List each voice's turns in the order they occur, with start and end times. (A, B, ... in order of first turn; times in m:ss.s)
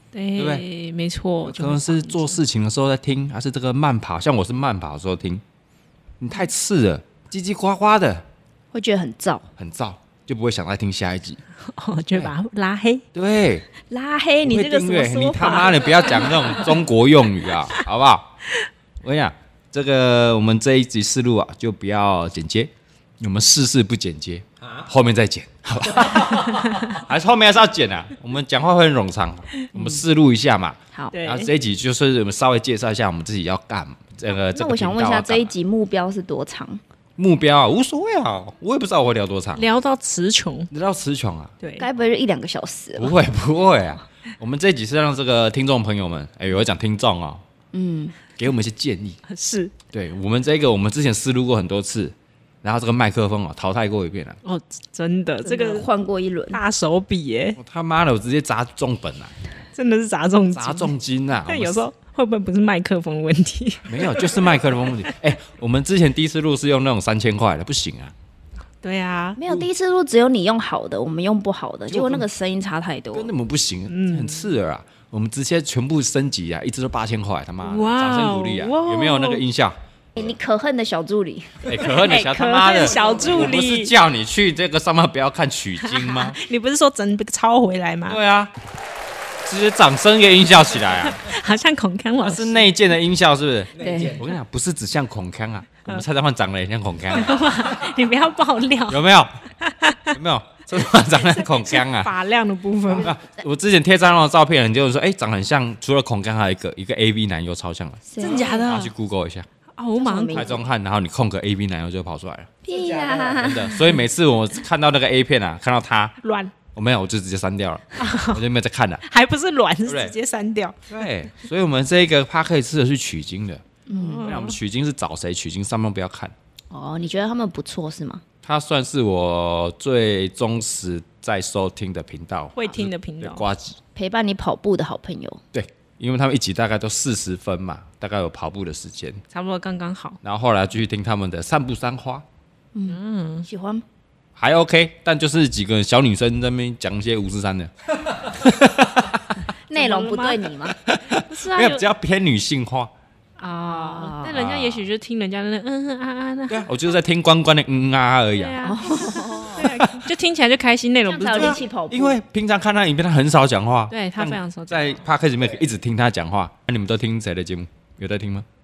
0:00.1-0:02.4 A
0:00.4-0:00.6 B
0:01.4-0:05.4 B
0:06.2-0:08.3 B
0:08.7-0:09.5 C
0:09.6-0:11.4 B
0:11.7-0:13.0 A
0:13.1-0:13.7 B
0:13.9-0:16.5 C
0:14.4-0:18.3 B
0:19.0-0:35.5 B
0:31.1-0:31.5 A
0:34.5-0:36.8 C
0:37.2-0:39.7 B
0:39.6-0:40.7 A
0:40.7-0:41.5 B
0:41.6-0:41.9 A
0:41.8-0:43.1 C
0:43.0-0:47.4 B
0:47.7-0:48.2 C
0:48.4-0:49.2 B
0:49.3-0:49.7 A
0:49.9-0:54.4 B
0:54.4-0:55.9 A
0:55.4-0:56.6 C
0:56.5-0:57.6 A
0:57.6-0:59.4 B
0:59.8-1:00.9 A
1:00.5-1:01.8 B
1:01.5-1:04.5 A
1:03.9-1:08.1 B
1:08.8-1:09.4 A
1:09.4-1:13.3 C
1:11.9-1:12.2 B
1:13.1-1:20.3 B
1:13.9-1:14.5 A
1:17.6-1:19.4 A
1:20.2-1:21.9 C
1:21.6-1:26.4 B
1:21.8-1:23.9 A
1:25.8-1:28.2 A
1:28.1-1:28.5 B
1:29.4-1:31.2 B
1:31.1-1:32.7 A
1:32.2-1:37.6 B
1:33.8-1:34.2 C
1:37.2-1:39.0 A
1:38.9-1:39.4 B
1:39.6-1:40.1 A
1:40.1-1:42.1 B
1:41.4-1:43.1 A
1:42.9-1:49.5 B
1:48.1-1:48.7 C
1:48.2-1:48.9 A
1:49.8-1:50.4 A
1:50.0-1:50.6 C
1:50.3-1:52.5 B
1:52.6-1:53.9 C
1:53.1-1:56.2 B
1:56.2-1:56.5 A
1:56.7-1:59.0 B
1:58.0-1:58.4 A
1:59.0-2:00.9 A
1:59.9-2:00.1 B
2:00.9-2:03.6 B
2:03.9-2:04.4 C
2:03.9-2:04.5 A
2:04.2-2:06.3 B
2:06.7-2:08.2 C
2:08.4-2:13.8 B
2:12.6-2:13.4 A
2:14.0-2:15.4 C
2:15.5-2:19.2 B
2:19.3-2:20.2 A
2:20.2-2:22.2 B
2:22.7-2:23.8 C
2:22.9-2:23.5 A
2:24.4-2:29.5 B
2:29.7-2:30.8 C
2:29.7-2:30.5 A
2:30.8-2:32.9 B
2:31.1-2:31.8 A
2:33.4-2:36.7 A
2:33.7-2:34.4 C
2:34.3-2:34.9 B
2:36.5-2:38.8 B
2:38.4-2:41.6 A
2:38.6-2:39.8 C
2:39.6-2:40.1 B
2:41.1-2:42.2 C
2:41.3-2:48.5 B
2:43.9-2:45.0 A